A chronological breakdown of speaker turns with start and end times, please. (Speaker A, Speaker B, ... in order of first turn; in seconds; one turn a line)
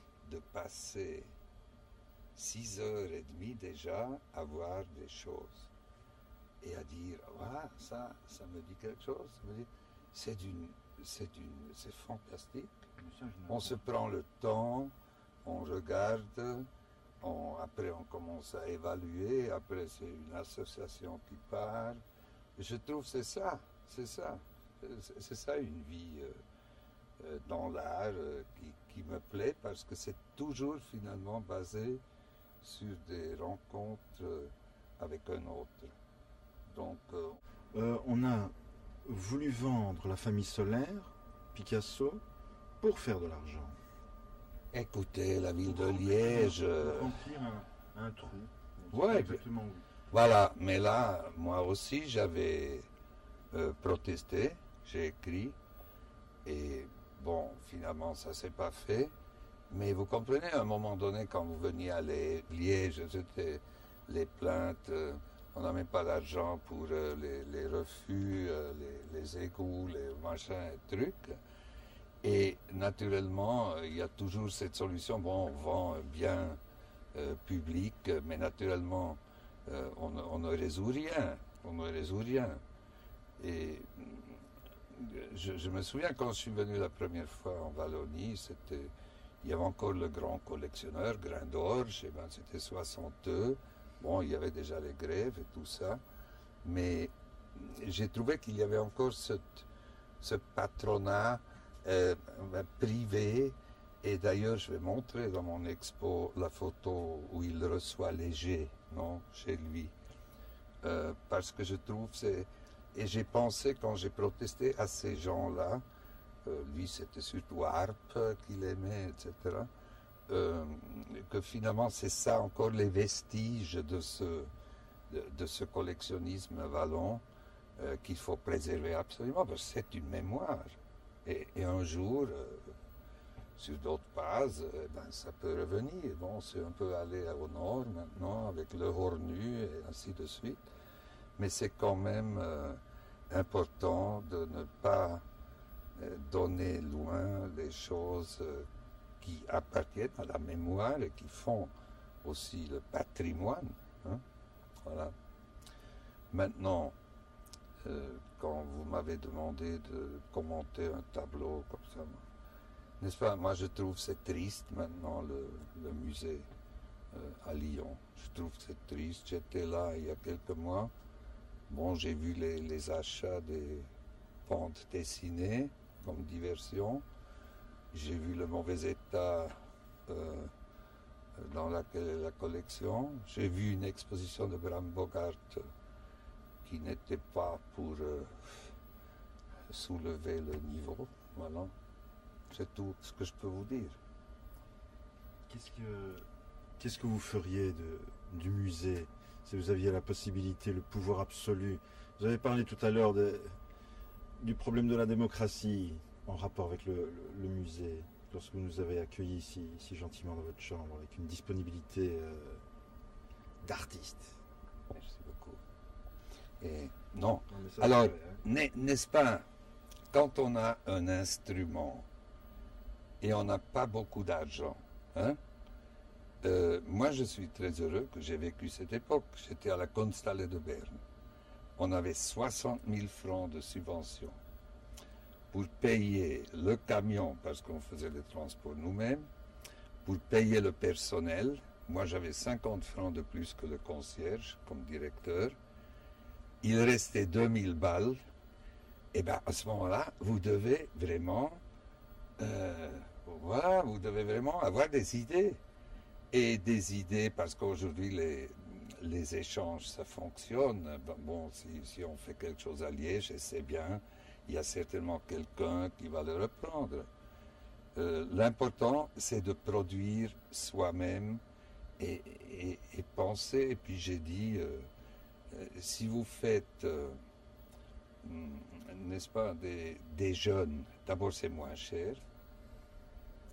Speaker A: 0.2-1.3
Speaker A: 2.3-5.7
Speaker A: 6.6-12.8
Speaker B: 13.0-13.8
Speaker A: 13.5-16.7
Speaker A: 17.2-22.0
Speaker A: 22.6-26.4
Speaker A: 27.2-32.0
Speaker A: 32.6-35.9
Speaker A: 36.6-37.4
Speaker B: 37.7-38.5
Speaker B: 39.0-42.2
Speaker B: 42.8-43.7
Speaker A: 44.7-47.1
Speaker B: 45.7-49.8
Speaker A: 48.9-49.4
Speaker A: 50.1-52.9
Speaker A: 53.5-55.6
Speaker A: 56.4-59.1
Speaker A: 59.7-71.4
Speaker A: 72.2-76.6
Speaker A: 77.1-82.6
Speaker A: 83.4-96.0
Speaker A: 96.6-99.7
Speaker A: 100.2-109.9
Speaker A: 110.8-115.8
Speaker A: 116.4-119.7
Speaker A: 120.3-124.5
Speaker A: 125.1-127.2
Speaker A: 127.8-132.7
Speaker A: 133.6-140.6
Speaker A: 141.4-145.2
Speaker A: 145.9-148.7
Speaker A: 149.2-154.2
Speaker A: 154.8-155.1
Speaker A: 156.3-156.9
Speaker A: 157.8-162.2
Speaker A: 163.0-166.5
Speaker A: 167.1-170.9
Speaker A: 171.7-173.9
Speaker A: 174.4-177.0
Speaker A: 177.9-179.5
Speaker A: 180.1-180.5
Speaker A: 181.4-185.6
Speaker A: 186.6-188.7
Speaker A: 189.7-191.7
Speaker A: 192.5-194.0
Speaker B: 195.5-196.2
Speaker B: 196.8-203.5
Speaker B: 204.4-212.6
Speaker B: 213.6-214.4
Speaker A: 214.9-215.6
Speaker A: 216.6-219.4
Speaker B: 217.5-218.4
Speaker A: 220.1-222.1
Speaker A: 223.2-225.4
Speaker A: 226.4-231.0
Speaker A: 231.8-234.3
Speaker A: 235.5-239.2
Speaker A: 240.0-245.6
Speaker A: 246.6-248.2
Speaker A: 249.1-251.6
Speaker A: 252.4-255.6
Speaker A: 256.3-267.1
Speaker A: 267.9-271.4
Speaker A: 272.0-274.9
Speaker A: 275.5-277.2
Speaker A: 278.2-282.2